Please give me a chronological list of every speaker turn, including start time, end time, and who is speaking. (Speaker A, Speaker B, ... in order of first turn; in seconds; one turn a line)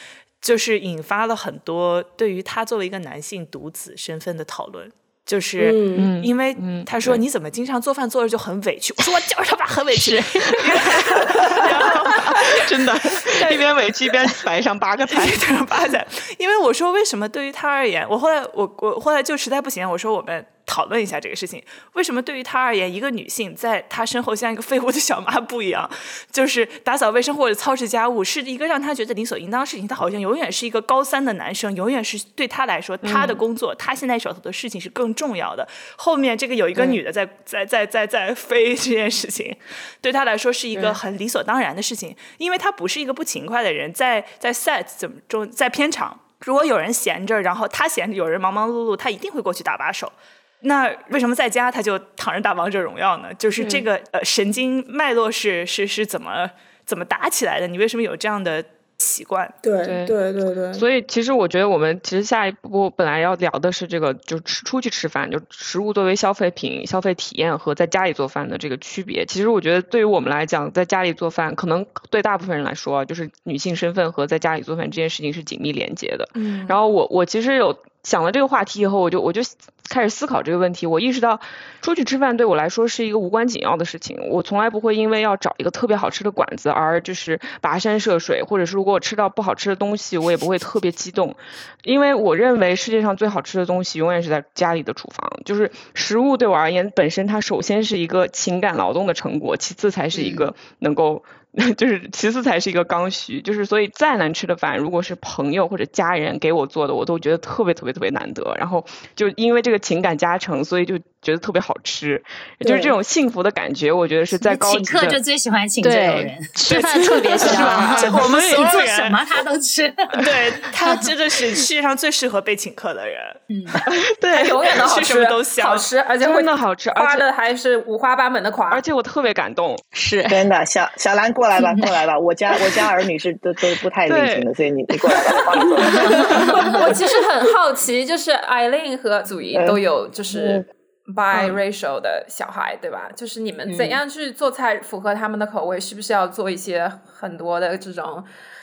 Speaker A: 0.4-14.3
Speaker B: 5.6-6.1
Speaker C: 5.9-7.2
Speaker C: 9.9-15.4
Speaker A: 15.1-59.5
Speaker C: 33.0-33.4
Speaker C: 40.7-41.0
Speaker C: 53.6-53.8
Speaker B: 59.6-60.9
Speaker C: 59.8-60.2
Speaker C: 60.7-115.2
Speaker A: 76.3-76.8
Speaker D: 100.1-100.5
Speaker B: 112.6-113.0
Speaker E: 114.3-121.0
Speaker D: 115.8-118.2
Speaker A: 116.7-119.2
Speaker C: 117.5-118.2
Speaker A: 120.2-123.4
Speaker E: 123.5-123.8
Speaker C: 123.9-124.7
Speaker F: 124.3-128.8
Speaker A: 124.7-125.9
Speaker C: 126.2-127.2
Speaker C: 128.7-129.8
Speaker D: 129.9-130.5
Speaker G: 130.3-136.2
Speaker E: 131.6-131.9
Speaker C: 134.1-134.5
Speaker C: 135.9-136.7
Speaker F: 136.6-148.3
Speaker G: 139.5-140.7
Speaker E: 143.7-144.0